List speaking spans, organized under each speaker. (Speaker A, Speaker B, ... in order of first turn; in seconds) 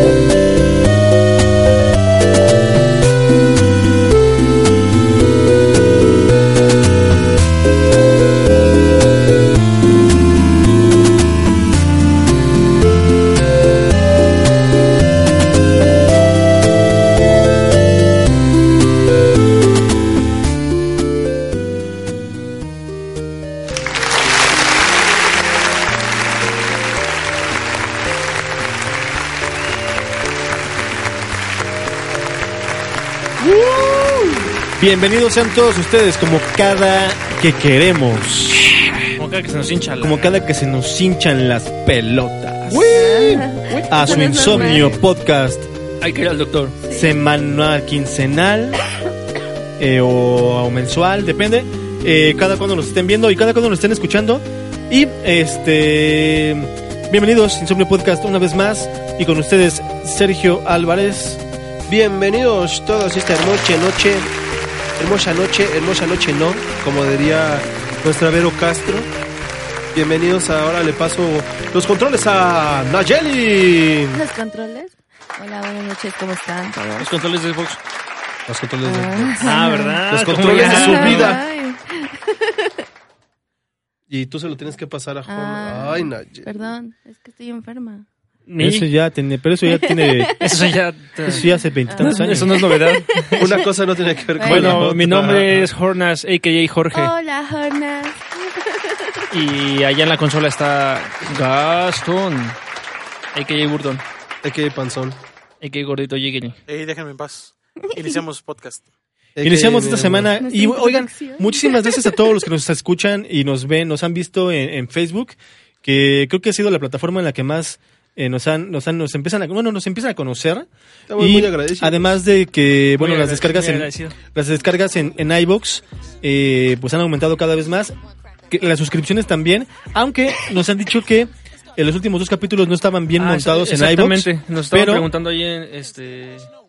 Speaker A: 33.4-34.4, 42.7-44.6, 61.9-64.3, 65.0-69.1, 69.9-74.2, 78.5-79.5, 80.1-81.4, 84.1-86.5, 93.4-95.7, 104.4-105.2, 109.3-110.3, 121.1-122.1
Speaker B: 34.8-39.0, 40.0-42.9, 43.9-45.7, 46.9-48.8, 49.8-61.4, 88.6-92.5, 109.4-127.9, 128.5-135.1
Speaker C: 39.2-40.2, 46.0-46.8, 77.0-77.8, 79.4-81.4, 88.5-88.9, 90.4-91.4, 92.0-93.5, 94.4-97.1, 99.3-102.6, 103.3-104.0, 105.6-106.6, 123.0-124.2, 133.2-136.5
Speaker D: 42.9-44.9, 46.8-47.1, 74.1-77.1, 78.8-80.0, 80.5-82.7, 85.3-88.0, 89.7-90.6, 91.9-93.4, 94.4-94.8, 96.9-99.2, 107.9-108.2, 110.4-112.1
Speaker E: 106.7-108.8